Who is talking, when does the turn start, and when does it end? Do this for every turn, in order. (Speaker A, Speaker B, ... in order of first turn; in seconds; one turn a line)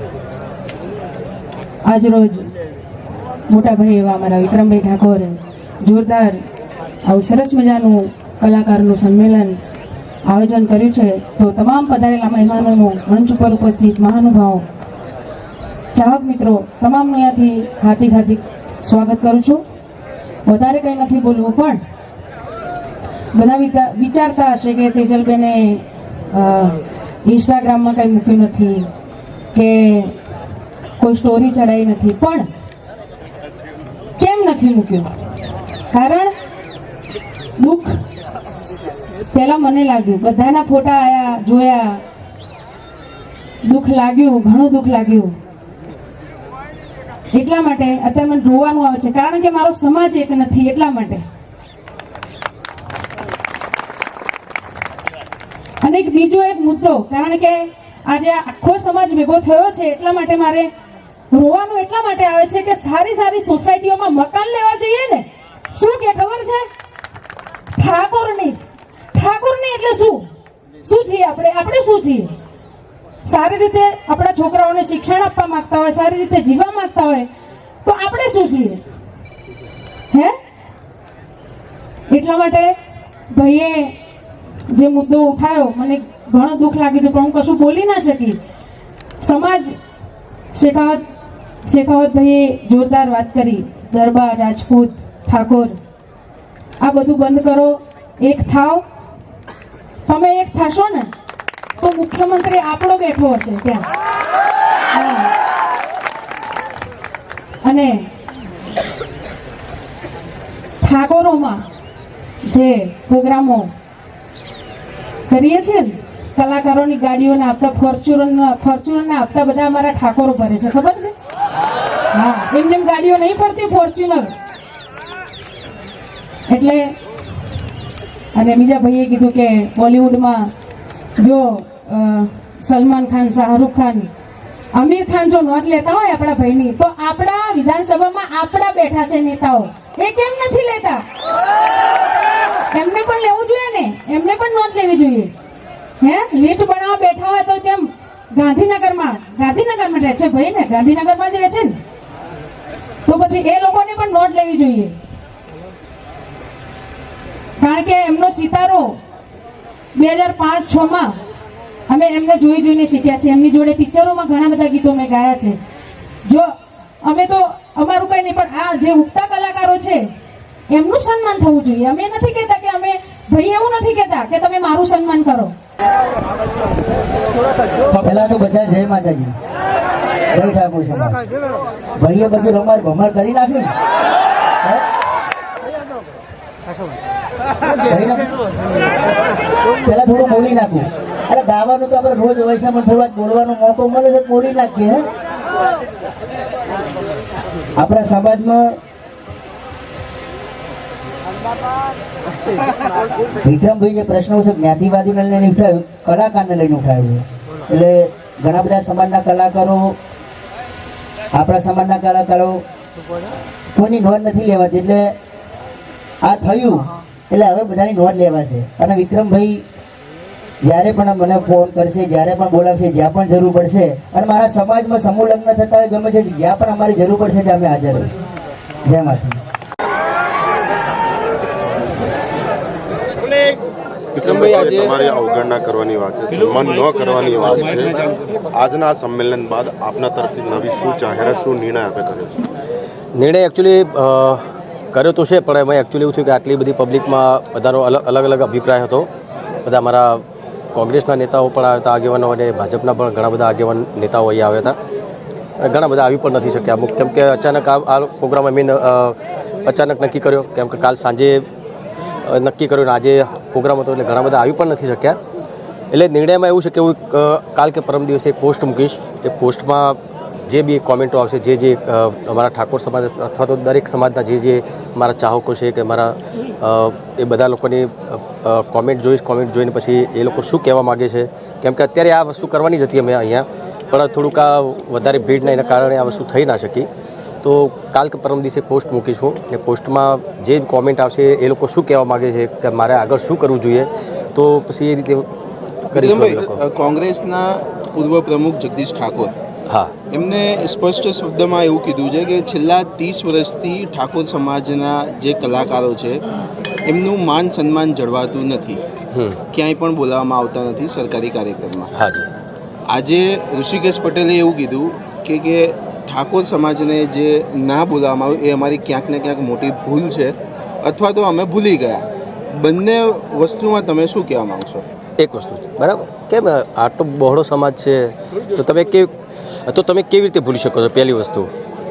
Speaker A: 1.9-2.5
Speaker A: 3.5-6.4
Speaker A: 7.0-9.6
Speaker A: 10.3-14.7
Speaker A: 15.9-19.6
Speaker A: 20.5-21.8
Speaker A: 23.3-28.9
Speaker A: 29.5-30.2
Speaker A: 31.0-32.5
Speaker A: 34.2-35.1
Speaker A: 35.9-36.3
Speaker A: 37.6-38.0
Speaker A: 39.3-42.0
Speaker A: 43.6-45.4
Speaker A: 47.3-51.2
Speaker A: 55.8-60.7
Speaker A: 61.3-66.7
Speaker A: 67.8-68.6
Speaker A: 69.1-70.3
Speaker A: 70.8-72.3
Speaker A: 73.3-77.3
Speaker A: 77.8-78.8
Speaker A: 80.1-80.3
Speaker A: 82.1-82.7
Speaker A: 83.3-84.0
Speaker A: 84.7-88.4
Speaker A: 89.2-89.7
Speaker A: 90.5-91.0
Speaker A: 91.7-95.8
Speaker A: 96.8-98.8
Speaker A: 100.1-101.1
Speaker A: 101.8-103.9
Speaker A: 104.9-105.3
Speaker A: 107.6-108.1
Speaker A: 110.8-111.7
Speaker A: 112.5-113.7
Speaker A: 115.3-121.1
Speaker A: 122.1-124.3
Speaker A: 126.5-127.0
Speaker A: 128.3-130.5
Speaker A: 131.2-134.1
Speaker A: 134.7-141.0
Speaker A: 142.7-145.3
Speaker A: 146.0-151.8
Speaker A: 153.1-154.9
Speaker A: 157.6-159.0
Speaker A: 160.0-161.2
Speaker A: 161.9-165.6
Speaker A: 166.2-170.1
Speaker A: 170.7-175.5
Speaker B: 177.9-179.3
Speaker B: 180.3-181.2
Speaker B: 182.0-183.7
Speaker B: 187.9-188.3
Speaker B: 189.8-195.1
Speaker B: 197.8-198.8
Speaker B: 203.4-210.0
Speaker B: 211.3-212.6
Speaker B: 213.8-215.1
Speaker B: 216.2-219.6
Speaker B: 220.6-228.1
Speaker B: 228.9-229.4
Speaker C: 234.2-235.0
Speaker D: 234.2-242.4
Speaker E: 243.2-244.4
Speaker E: 244.9-249.1
Speaker E: 249.7-250.2
Speaker E: 250.8-254.8
Speaker E: 255.6-261.5
Speaker E: 262.3-265.2
Speaker E: 265.9-286.9
Speaker E: 287.4-295.3
Speaker E: 295.9-296.6
Speaker C: 295.9-299.3
Speaker E: 299.7-299.9
Speaker C: 300.1-306.2
Speaker C: 306.9-308.9
Speaker E: 309.1-309.4
Speaker C: 309.5-311.9
Speaker E: 311.9-312.3
Speaker C: 312.9-324.9
Speaker E: 325.2-329.1
Speaker E: 329.7-331.5